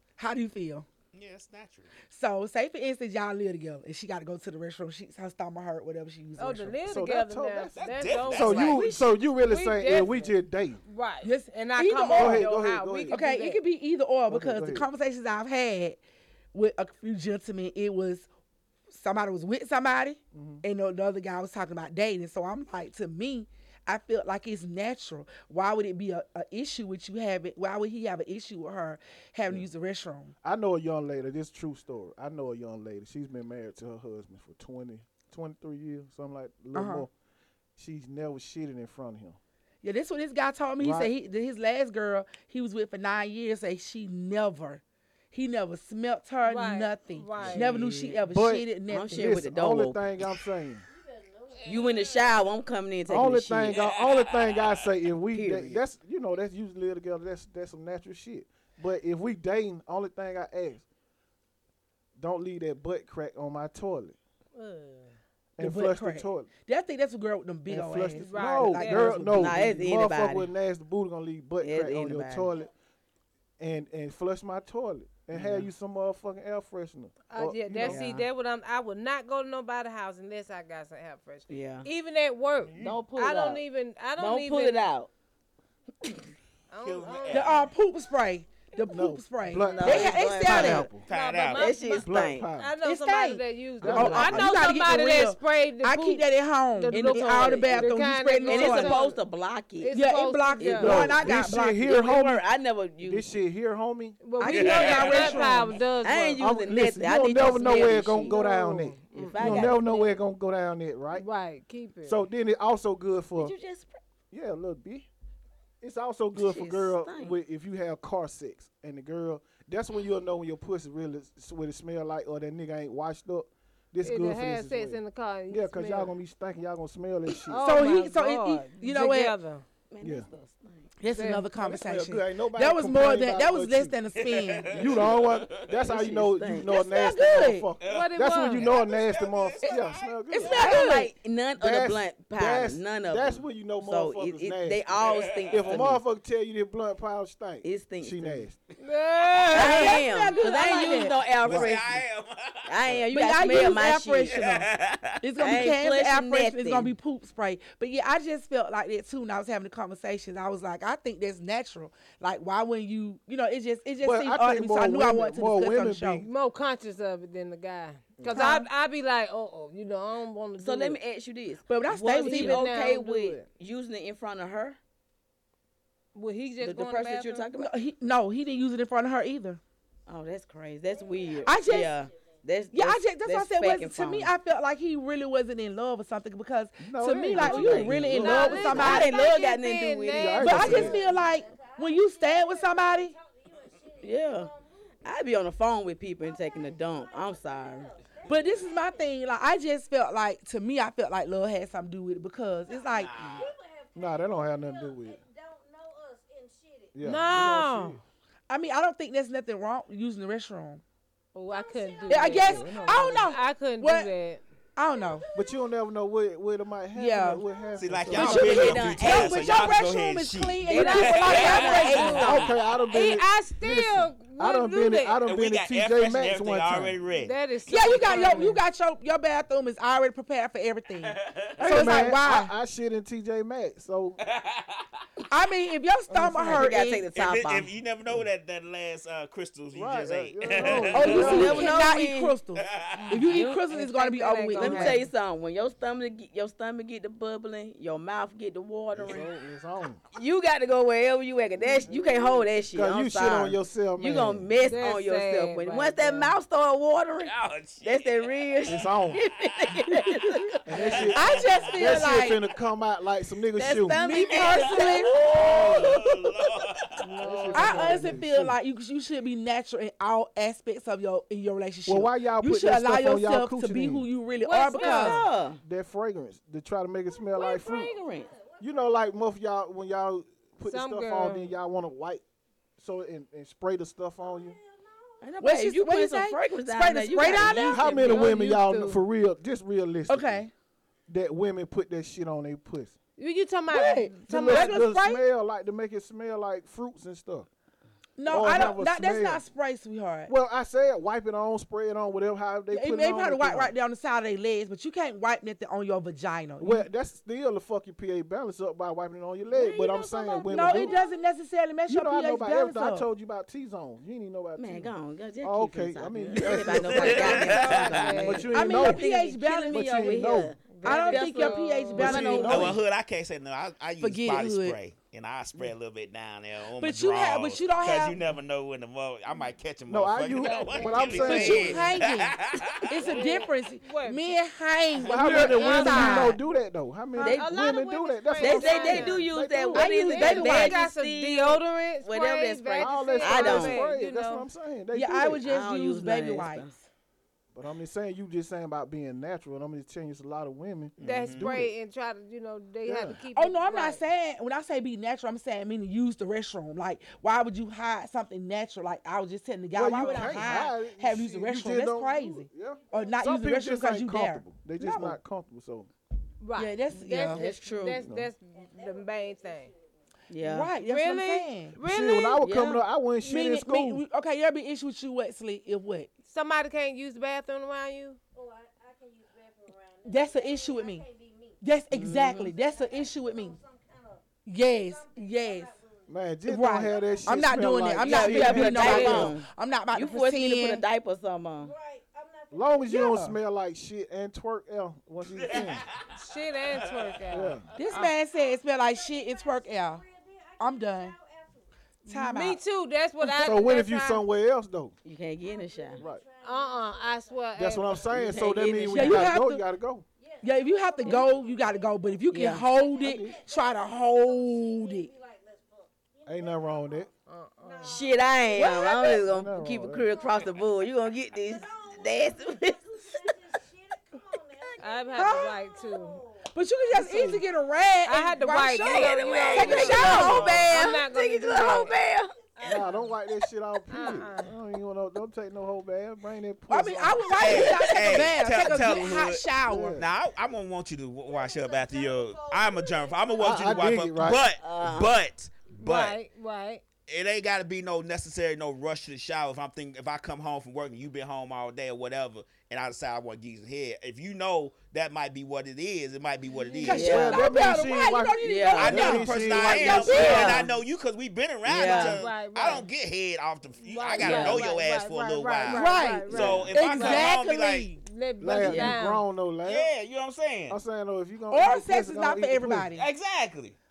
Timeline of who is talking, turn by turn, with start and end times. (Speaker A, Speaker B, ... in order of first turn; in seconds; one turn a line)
Speaker A: 0.2-0.8
Speaker B: 1.1-1.9
Speaker A: 2.1-6.8
Speaker C: 6.4-13.6
Speaker D: 6.8-10.8
Speaker B: 7.7-9.0
Speaker A: 11.2-12.5
Speaker D: 12.1-13.2
Speaker A: 13.1-16.0
Speaker D: 14.3-14.9
Speaker A: 16.5-18.3
Speaker A: 18.9-30.3
Speaker D: 20.3-20.6
Speaker D: 30.4-37.1
Speaker A: 36.7-37.0
Speaker D: 37.8-39.4
Speaker A: 39.8-49.3
Speaker D: 40.8-41.1
Speaker C: 46.4-47.7
Speaker D: 47.4-47.6
Speaker E: 47.5-48.2
Speaker D: 48.2-50.8
Speaker E: 48.9-50.0
Speaker F: 50.8-52.5
Speaker C: 51.6-51.9
Speaker E: 51.6-53.8
Speaker D: 53.1-60.8
Speaker B: 53.7-55.0
Speaker E: 55.3-55.8
Speaker D: 62.2-64.2
Speaker C: 64.5-65.1
Speaker D: 65.6-66.5
Speaker A: 65.6-69.7
Speaker D: 67.7-72.7
Speaker C: 68.2-69.1
Speaker E: 69.3-70.5
Speaker E: 71.6-72.5
Speaker D: 73.6-78.0
Speaker E: 75.3-75.7
Speaker C: 77.3-84.9
Speaker E: 77.8-78.2
Speaker E: 81.5-81.9
Speaker D: 82.6-83.0
Speaker E: 82.8-83.6
Speaker E: 84.2-85.1
Speaker C: 86.7-87.6
Speaker B: 86.8-87.7
Speaker A: 87.3-90.9
Speaker D: 88.9-91.0
Speaker F: 89.7-90.0
Speaker E: 89.7-90.9
Speaker B: 91.0-91.7
Speaker C: 91.1-99.2
Speaker E: 91.5-92.5
Speaker D: 92.0-92.7
Speaker A: 92.8-99.0
Speaker D: 93.8-94.5
Speaker E: 96.9-97.9
Speaker E: 98.4-99.9
Speaker C: 99.8-101.0
Speaker A: 99.9-101.9
Speaker E: 100.6-103.2
Speaker D: 100.8-102.4
Speaker D: 103.0-104.2
Speaker C: 104.2-106.4
Speaker A: 104.4-105.8
Speaker B: 104.4-105.5
Speaker E: 106.0-108.4
Speaker D: 106.4-111.2
Speaker C: 107.8-109.7
Speaker E: 109.1-110.2
Speaker C: 111.1-112.2
Speaker D: 112.0-113.5
Speaker E: 113.3-114.0
Speaker D: 114.3-115.1
Speaker D: 115.8-127.8
Speaker E: 116.3-117.4
Speaker C: 124.0-126.1
Speaker C: 127.5-129.6
Speaker A: 127.6-129.3
Speaker E: 129.9-130.9
Speaker D: 130.0-130.3
Speaker A: 131.0-134.9
Speaker C: 131.1-131.5
Speaker D: 131.6-134.0
Speaker B: 134.1-135.8
Speaker D: 134.7-140.7
Speaker E: 135.9-137.2
Speaker A: 136.7-137.7
Speaker B: 137.8-140.7
Speaker C: 137.8-138.7
Speaker A: 140.3-141.1
Speaker E: 140.4-146.0
Speaker D: 141.6-144.8
Speaker B: 144.9-145.8
Speaker D: 145.5-148.6
Speaker E: 147.6-148.4
Speaker C: 148.8-151.0
Speaker A: 149.5-151.2
Speaker E: 149.5-152.0
Speaker B: 151.4-153.0
Speaker D: 151.4-151.8
Speaker E: 152.7-154.6
Speaker A: 153.1-154.6
Speaker B: 154.2-155.2
Speaker A: 155.2-166.2
Speaker E: 155.4-156.9
Speaker D: 164.0-166.3
Speaker C: 166.2-171.0
Speaker D: 168.2-168.6
Speaker A: 168.3-168.7
Speaker E: 170.6-174.8
Speaker A: 171.7-172.7
Speaker C: 172.2-173.4
Speaker C: 176.1-177.5
Speaker E: 176.6-177.7
Speaker A: 177.6-179.6
Speaker E: 180.1-184.3
Speaker F: 180.8-182.4
Speaker A: 181.4-181.9
Speaker A: 182.7-189.1
Speaker D: 186.8-189.1
Speaker E: 187.3-190.9
Speaker C: 188.1-191.0
Speaker D: 190.1-191.0
Speaker A: 190.4-193.1
Speaker F: 190.5-195.3
Speaker E: 194.0-194.5
Speaker E: 195.0-197.9
Speaker F: 196.2-199.3
Speaker A: 198.2-203.2
Speaker F: 202.7-207.3
Speaker B: 202.9-203.5
Speaker D: 203.9-205.2
Speaker D: 206.9-208.0
Speaker C: 207.0-208.0
Speaker A: 208.5-210.8
Speaker C: 211.3-214.4
Speaker F: 211.5-213.3
Speaker A: 212.1-214.1
Speaker D: 212.5-213.2
Speaker A: 214.8-215.2
Speaker F: 214.8-215.8
Speaker D: 215.3-218.8
Speaker A: 216.9-217.4
Speaker F: 217.4-217.8
Speaker B: 217.8-222.3
Speaker A: 218.1-222.5
Speaker E: 218.1-219.8
Speaker E: 220.6-222.4
Speaker C: 220.8-225.2
Speaker D: 222.2-227.0
Speaker B: 225.2-227.3
Speaker C: 227.2-228.6
Speaker A: 227.7-232.5
Speaker B: 231.0-232.0
Speaker D: 231.6-234.2
Speaker B: 234.2-235.0
Speaker A: 235.3-237.1
Speaker C: 236.2-236.6
Speaker E: 236.4-237.7
Speaker B: 237.1-241.6
Speaker D: 239.7-241.7
Speaker A: 240.9-245.1
Speaker E: 241.0-242.4
Speaker B: 242.5-243.2
Speaker E: 243.1-243.6
Speaker C: 243.7-245.0
Speaker E: 244.5-249.3
Speaker D: 248.9-250.0
Speaker E: 250.1-260.5
Speaker D: 251.6-254.5
Speaker C: 254.6-256.3
Speaker B: 257.2-262.5
Speaker D: 258.6-259.2
Speaker D: 260.6-264.0
Speaker A: 261.1-262.4
Speaker E: 263.6-266.1
Speaker A: 264.0-265.8
Speaker B: 264.3-267.2
Speaker D: 265.5-265.9
Speaker C: 267.0-268.2
Speaker D: 267.1-268.6
Speaker A: 267.5-275.2
Speaker D: 271.9-274.1
Speaker C: 274.4-275.2
Speaker E: 274.7-275.6
Speaker D: 275.6-277.9
Speaker F: 277.1-279.2
Speaker E: 277.7-278.3
Speaker D: 278.6-282.2
Speaker C: 280.6-281.5
Speaker D: 282.8-284.6
Speaker F: 284.2-285.4
Speaker E: 285.2-288.3
Speaker A: 285.4-288.3
Speaker D: 287.6-290.4
Speaker C: 287.8-289.0
Speaker A: 290.1-290.5
Speaker D: 291.1-292.9
Speaker C: 293.2-294.8
Speaker A: 293.7-295.2
Speaker D: 294.3-297.5
Speaker A: 298.2-300.3
Speaker D: 298.2-299.4
Speaker D: 300.3-303.7
Speaker A: 302.7-306.9
Speaker D: 306.6-311.0
Speaker F: 309.5-311.3
Speaker A: 310.4-313.1
Speaker D: 311.9-319.0
Speaker E: 314.6-322.8
Speaker B: 316.4-318.2
Speaker C: 316.9-318.5
Speaker A: 318.5-320.2
Speaker D: 319.7-320.5
Speaker C: 320.7-322.5
Speaker A: 320.8-322.8
Speaker D: 321.9-322.8
Speaker B: 322.4-333.0
Speaker A: 324.0-324.8
Speaker A: 326.8-328.2
Speaker D: 329.9-331.8
Speaker C: 330.4-332.0
Speaker A: 331.2-332.4
Speaker A: 332.9-336.4
Speaker C: 333.0-334.4
Speaker D: 335.0-340.2
Speaker C: 335.1-336.4
Speaker E: 337.2-337.5
Speaker C: 337.2-339.3
Speaker E: 338.4-343.8
Speaker A: 339.7-340.9
Speaker C: 339.8-344.5
Speaker D: 342.8-345.4
Speaker A: 344.9-346.8
Speaker E: 345.4-346.7
Speaker D: 347.5-351.7
Speaker B: 351.0-351.5
Speaker C: 351.0-354.0
Speaker D: 352.8-353.2
Speaker A: 353.3-365.2
Speaker D: 359.7-365.9
Speaker C: 360.0-360.3
Speaker F: 360.2-360.6
Speaker F: 362.0-363.4
Speaker C: 366.4-369.7
Speaker A: 366.6-367.5
Speaker E: 367.2-368.0
Speaker D: 368.0-368.3
Speaker F: 368.5-370.0
Speaker E: 370.3-370.7
Speaker A: 370.4-371.7
Speaker C: 370.8-372.4
Speaker D: 371.8-374.0
Speaker E: 372.4-372.8
Speaker A: 373.2-376.1
Speaker C: 376.3-378.2
Speaker F: 378.3-381.6
Speaker A: 380.1-381.0
Speaker A: 381.6-383.6
Speaker E: 381.9-382.5
Speaker F: 382.1-387.8
Speaker A: 384.4-385.7
Speaker D: 386.1-389.4
Speaker A: 386.4-390.8
Speaker E: 388.0-391.7
Speaker C: 388.8-389.2
Speaker F: 391.6-393.2
Speaker D: 392.5-395.8
Speaker A: 392.9-393.3
Speaker B: 395.3-397.2
Speaker C: 396.1-398.1
Speaker D: 397.3-397.6
Speaker A: 397.8-400.0
Speaker F: 397.9-401.7
Speaker A: 400.6-401.1
Speaker C: 402.0-404.2
Speaker A: 402.1-402.6
Speaker A: 403.2-403.5
Speaker D: 403.4-404.9
Speaker E: 405.0-406.0
Speaker F: 405.4-408.6
Speaker C: 406.4-408.1
Speaker D: 407.6-410.0
Speaker E: 408.1-409.4
Speaker A: 408.9-409.6
Speaker F: 410.2-419.3
Speaker A: 410.4-415.1
Speaker E: 412.3-412.7
Speaker D: 413.0-413.4
Speaker D: 416.2-417.1
Speaker C: 417.3-418.0
Speaker E: 417.8-423.3
Speaker A: 418.6-419.2
Speaker D: 419.2-420.1
Speaker F: 419.8-428.0
Speaker C: 424.8-426.2
Speaker A: 425.1-425.5
Speaker A: 426.5-430.9
Speaker D: 426.9-427.4
Speaker C: 428.1-431.9
Speaker E: 428.8-432.3
Speaker B: 429.2-430.8
Speaker F: 429.5-429.9
Speaker F: 430.9-433.2
Speaker C: 432.6-433.1
Speaker D: 432.6-437.8
Speaker C: 433.9-434.5
Speaker F: 434.0-434.3
Speaker A: 436.7-440.0
Speaker B: 437.3-446.2
Speaker D: 438.5-439.0
Speaker D: 439.6-440.1
Speaker F: 441.2-444.1
Speaker D: 443.4-444.4
Speaker E: 444.6-445.2
Speaker C: 445.8-446.8
Speaker B: 447.1-457.3
Speaker C: 456.6-456.9
Speaker A: 456.8-460.7
Speaker E: 456.9-457.4
Speaker D: 457.0-460.4
Speaker E: 458.4-459.2
Speaker B: 458.8-467.9
Speaker E: 460.0-460.7
Speaker E: 461.6-462.2
Speaker C: 461.8-462.9
Speaker C: 463.8-467.3
Speaker E: 464.2-464.6
Speaker A: 465.7-468.0
Speaker D: 466.3-466.7
Speaker C: 468.0-469.2
Speaker D: 468.4-469.9
Speaker E: 468.6-468.9
Speaker B: 469.6-470.8
Speaker D: 470.7-472.9
Speaker A: 471.5-473.1
Speaker B: 472.9-473.8